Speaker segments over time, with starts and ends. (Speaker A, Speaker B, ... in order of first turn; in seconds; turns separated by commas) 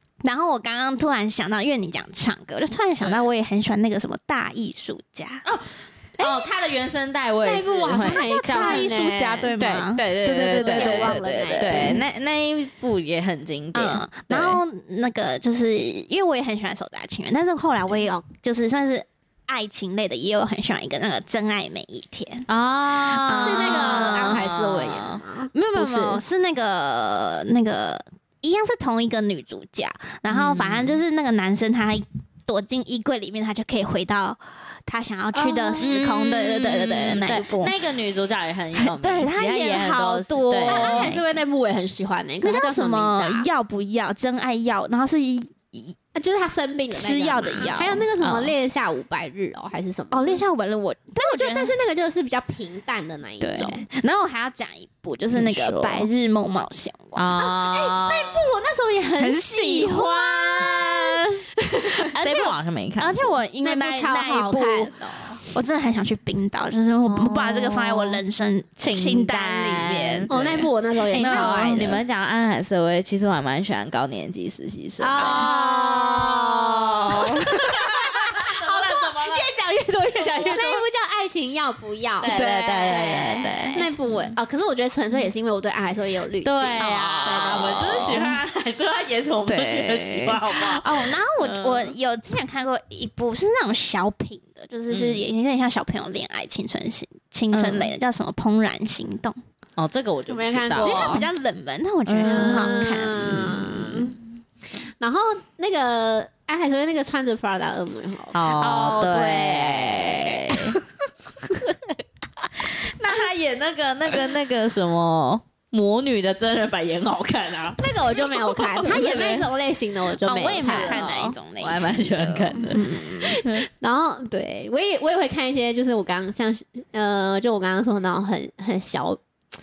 Speaker A: 0.2-5.4, Speaker B: 5.5-8.9, Speaker C: 6.2-6.5, Speaker C: 7.4-9.6, Speaker A: 8.0-12.0, Speaker B: 9.6-14.6, Speaker C: 10.6-12.0, Speaker A: 13.8-24.4, Speaker B: 22.5-25.2, Speaker C: 23.3-26.2, Speaker A: 25.5-37.7, Speaker B: 30.3-31.0, Speaker C: 35.3-36.1, Speaker B: 35.8-41.2, Speaker A: 38.8-41.2, Speaker C: 40.7-43.5, Speaker A: 42.4-46.0, Speaker C: 46.1-50.5, Speaker A: 46.9-48.1, Speaker B: 48.2-48.5, Speaker A: 50.1-51.7, Speaker C: 51.2-53.9, Speaker A: 53.4-57.3, Speaker B: 55.3-56.1, Speaker B: 57.1-58.5, Speaker C: 57.4-62.1, Speaker A: 59.2-61.5, Speaker A: 62.1-72.0, Speaker B: 62.2-63.3, Speaker C: 63.6-65.3, Speaker B: 67.0-68.2, Speaker B: 68.8-75.5, Speaker C: 70.3-71.9, Speaker C: 75.0-88.2, Speaker A: 75.2-78.5, Speaker B: 77.8-79.5, Speaker A: 80.2-80.8, Speaker B: 82.2-84.3, Speaker A: 82.3-83.8, Speaker B: 86.4-91.9, Speaker A: 86.8-88.4, Speaker A: 89.5-99.4, Speaker B: 94.9-95.2, Speaker B: 97.5-97.9, Speaker B: 99.8-101.2, Speaker C: 100.3-101.3, Speaker A: 100.8-104.0, Speaker B: 102.1-102.8, Speaker C: 102.2-104.2, Speaker C: 105.0-110.0, Speaker B: 108.3-110.8, Speaker A: 108.6-109.3, Speaker B: 112.5-117.8, Speaker C: 117.8-121.2, Speaker A: 118.3-119.4, Speaker B: 118.8-119.5, Speaker A: 120.2-123.4, Speaker B: 120.5-123.6, Speaker C: 123.1-129.2